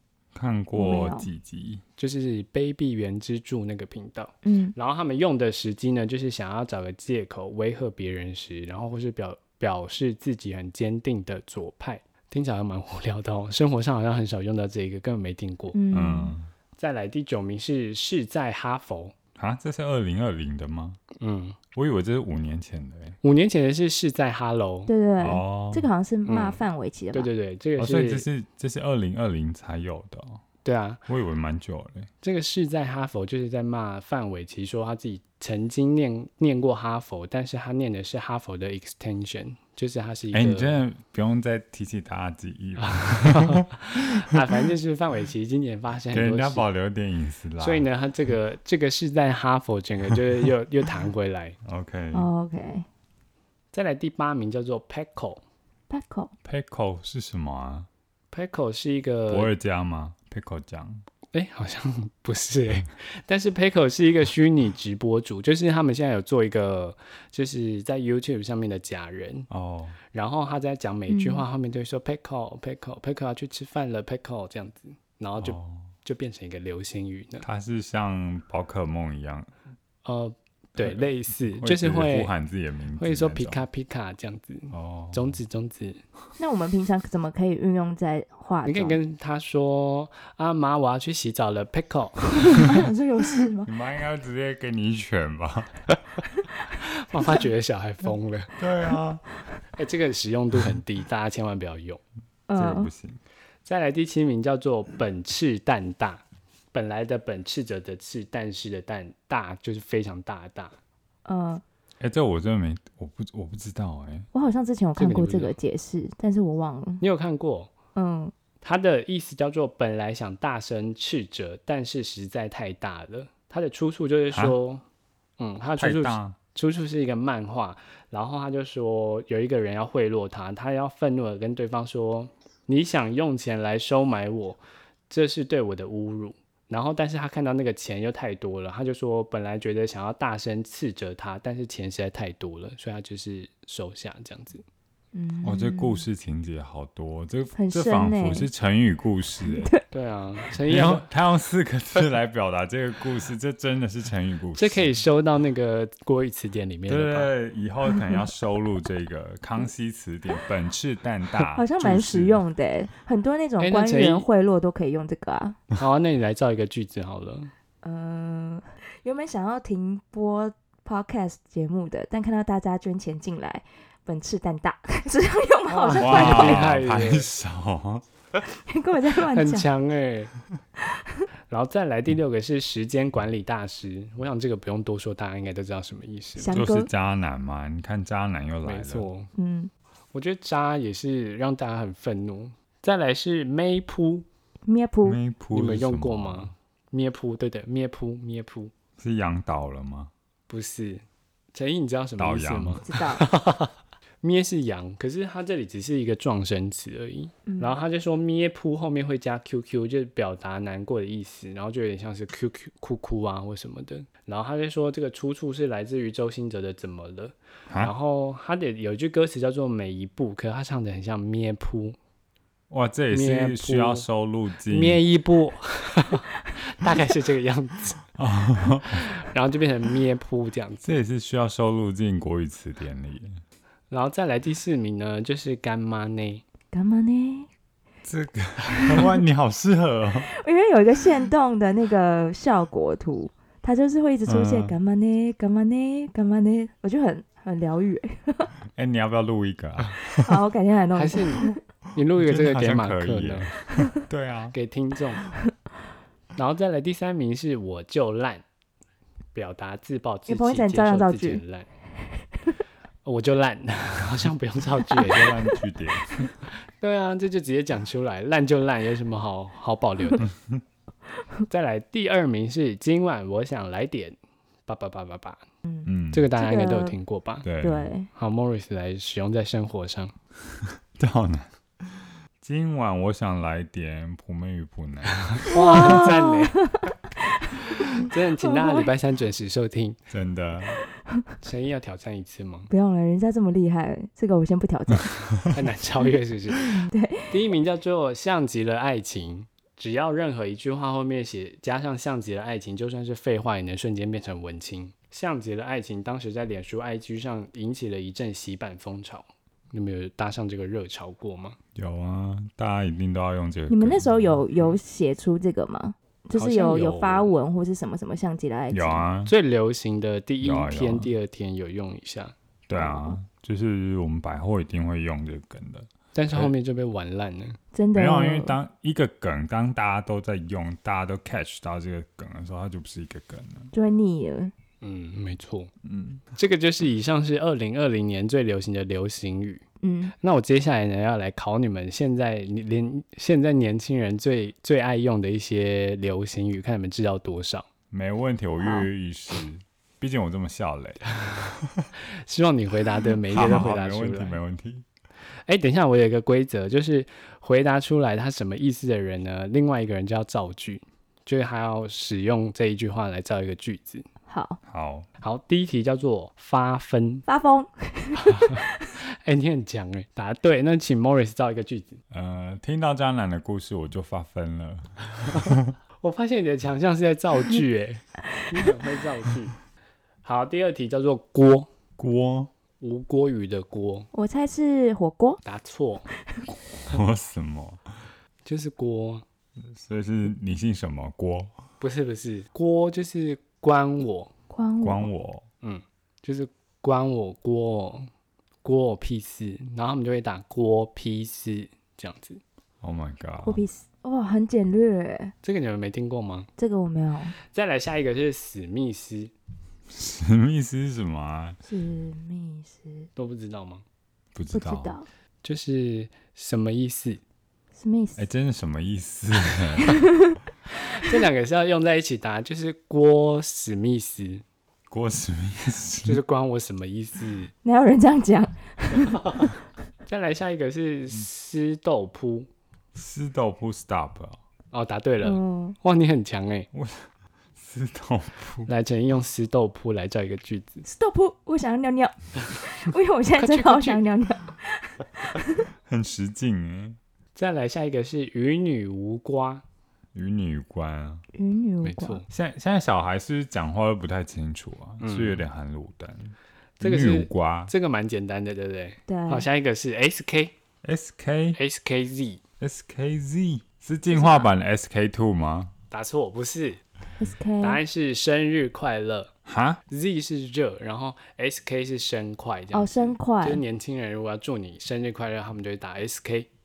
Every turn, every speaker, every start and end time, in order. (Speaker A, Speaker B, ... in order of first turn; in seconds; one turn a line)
Speaker A: 0.3-1.8
Speaker B: 0.7-1.3
Speaker C: 2.0-15.8
Speaker B: 4.4-4.7
Speaker B: 15.7-16.3
Speaker A: 15.9-16.5
Speaker C: 16.8-19.1
Speaker A: 19.4-21.0
Speaker C: 21.2-21.6
Speaker A: 21.7-23.2
Speaker C: 23.2-24.9
Speaker B: 24.9-27.3
Speaker A: 25.2-25.9
Speaker C: 26.2-26.6
Speaker C: 27.1-28.2
Speaker A: 27.8-30.4
Speaker C: 30.6-31.0
Speaker A: 31.1-32.1
Speaker C: 32.2-40.8
Speaker A: 40.3-44.0
Speaker C: 42.8-46.6
Speaker A: 46.1-47.9
Speaker C: 47.6-51.6
Speaker A: 51.6-52.3
Speaker B: 52.1-52.9
Speaker C: 53.7-55.4
Speaker B: 55.9-56.3
Speaker A: 56.4-57.9
Speaker C: 58.3-59.5
Speaker A: 59.3-61.0
Speaker C: 61.3-69.5
Speaker A: 69.5-70.0
Speaker C: 70.1-77.5
Speaker B: 71.1-71.5
Speaker A: 75.4-75.9
Speaker A: 77.4-79.5
Speaker C: 80.0-82.3
Speaker A: 80.8-83.6
Speaker C: 83.0-86.0
Speaker A: 84.7-85.3
Speaker B: 86.4-89.0
Speaker C: 88.6-92.8
Speaker B: 92.3-93.7
Speaker A: 93.6-95.8
Speaker C: 96.7-98.5
Speaker A: 98.6-99.2
Speaker C: 99.7-102.0
Speaker B: 102.5-102.9
Speaker A: 102.5-103.2
Speaker C: 103.6-110.8
Speaker B: 111.2-111.6
Speaker A: 112.0-114.3
Speaker B: 114.3-117.0
Speaker C: 115.0-115.5
Speaker C: 117.0-117.7
Speaker B: 117.9-118.3
Speaker C: 118.6-124.8
Speaker A: 124.3-124.6
Speaker C: 125.4-144.6
Speaker A: 125.8-126.4
Speaker B: 145.1-146.0
Speaker A: 145.4-149.7
Speaker B: 147.5-148.5
Speaker B: 149.5-149.8
Speaker C: 149.9-151.1
Speaker A: 150.7-154.9
Speaker C: 154.5-157.3
Speaker A: 156.9-162.4
Speaker B: 161.5-165.6
Speaker C: 163.6-164.3
Speaker C: 165.8-167.5
Speaker B: 167.8-176.6
Speaker C: 175.7-177.3
Speaker A: 175.9-178.0
Speaker B: 178.4-179.7
Speaker C: 179.2-180.3
Speaker B: 180.9-181.2
Speaker C: 181.5-186.6
Speaker B: 186.4-186.9
Speaker A: 186.5-189.1
Speaker C: 188.6-189.3
Speaker B: 189.3-189.7
Speaker C: 190.1-194.2
Speaker B: 194.7-195.2
Speaker A: 195.0-196.5
Speaker C: 195.5-198.7
Speaker A: 199.0-200.1
Speaker C: 200.5-221.9
Speaker A: 202.2-202.8
Speaker B: 202.8-203.2
Speaker B: 207.4-207.8
Speaker A: 222.7-225.0
Speaker C: 223.1-224.1
Speaker C: 224.7-228.0
Speaker A: 228.2-229.1
Speaker C: 228.8-230.8
Speaker A: 230.8-233.4
Speaker C: 233.9-236.4
Speaker B: 236.7-237.5
Speaker A: 238.0-240.3
Speaker B: 238.7-239.1
Speaker B: 240.2-248.5
Speaker A: 244.2-244.7
Speaker A: 248.7-250.4
Speaker B: 250.2-251.5
Speaker C: 250.9-253.5
Speaker A: 252.1-254.5
Speaker C: 254.5-255.2
Speaker C: 256.4-258.4
Speaker C: 259.3-261.7
Speaker B: 260.3-261.4
Speaker C: 263.0-265.3
Speaker A: 265.0-266.3
Speaker C: 266.7-270.3
Speaker A: 270.2-270.6
Speaker C: 271.5-275.4
Speaker B: 275.7-277.0
Speaker A: 275.9-276.3
Speaker C: 276.1-277.4
Speaker A: 277.4-277.9
Speaker B: 277.6-278.1
Speaker C: 278.1-280.1
Speaker A: 280.6-286.0
Speaker C: 285.1-286.6
Speaker B: 285.5-288.9
Speaker C: 287.9-290.0
Speaker A: 290.1-290.8
Speaker C: 291.4-292.7
Speaker B: 292.7-295.1
Speaker C: 295.5-311.6
Speaker B: 296.6-297.4
Speaker A: 311.7-314.7
Speaker B: 313.7-319.1
Speaker C: 316.3-317.3
Speaker A: 318.7-319.3
Speaker C: 319.2-322.3
Speaker A: 320.4-321.1
Speaker A: 322.7-326.5
Speaker B: 322.7-323.2
Speaker C: 326.1-327.6
Speaker B: 327.7-328.6
Speaker A: 327.9-333.7
Speaker B: 333.7-334.5
Speaker C: 334.8-335.7
Speaker A: 335.8-336.2
Speaker C: 336.3-339.6
Speaker B: 339.8-340.1
Speaker C: 340.2-347.7
Speaker A: 347.9-351.9
Speaker B: 348.6-348.9
Speaker C: 352.2-354.4
Speaker A: 353.3-354.9
Speaker C: 355.5-364.1
Speaker B: 364.3-364.6
Speaker A: 364.6-365.1
Speaker C: 365.2-367.2
Speaker B: 367.3-368.9
Speaker C: 368.3-372.0
Speaker A: 372.1-375.7
Speaker C: 376.0-379.5
Speaker C: 380.2-381.7
Speaker A: 382.0-382.5
Speaker C: 382.8-384.1
Speaker B: 384.1-385.4
Speaker C: 385.4-386.1
Speaker A: 386.9-387.9
Speaker C: 388.4-389.2
Speaker A: 389.7-391.6
Speaker C: 391.8-394.3
Speaker B: 394.5-395.1
Speaker A: 394.8-395.4
Speaker C: 395.6-398.1
Speaker C: 398.6-402.4
Speaker A: 402.8-403.6
Speaker B: 403.4-405.3
Speaker C: 405.4-406.5
Speaker B: 406.6-407.4
Speaker C: 407.4-409.3
Speaker A: 409.9-411.6
Speaker B: 411.7-413.1
Speaker C: 413.1-413.8
Speaker A: 414.3-414.9
Speaker B: 414.5-415.1
Speaker C: 415.4-417.2
Speaker B: 417.8-418.2
Speaker A: 418.2-420.0
Speaker B: 419.8-420.4
Speaker C: 420.9-424.4
Speaker A: 424.9-426.2
Speaker C: 426.0-427.5
Speaker B: 427.6-429.5
Speaker C: 430.1-432.5
Speaker A: 432.9-434.4
Speaker C: 434.7-436.7
Speaker B: 435.2-435.8
Speaker A: 436.7-438.7
Speaker C: 438.7-440.8
Speaker B: 440.8-445.7
Speaker C: 443.4-444.0
Speaker A: 445.8-447.0
Speaker C: 447.4-449.6
Speaker A: 450.1-451.2
Speaker B: 451.3-452.2
Speaker C: 451.8-452.2
Speaker A: 452.3-457.7
Speaker C: 455.0-455.4
Speaker C: 456.8-460.5
Speaker B: 459.1-459.5
Speaker A: 460.8-461.6
Speaker C: 461.6-462.4
Speaker A: 462.6-465.7
Speaker B: 464.1-464.5
Speaker C: 465.9-466.8
Speaker B: 467.2-467.8
Speaker C: 467.6-469.3
Speaker A: 469.4-469.8
Speaker C: 469.9-476.5
Speaker B: 472.7-473.6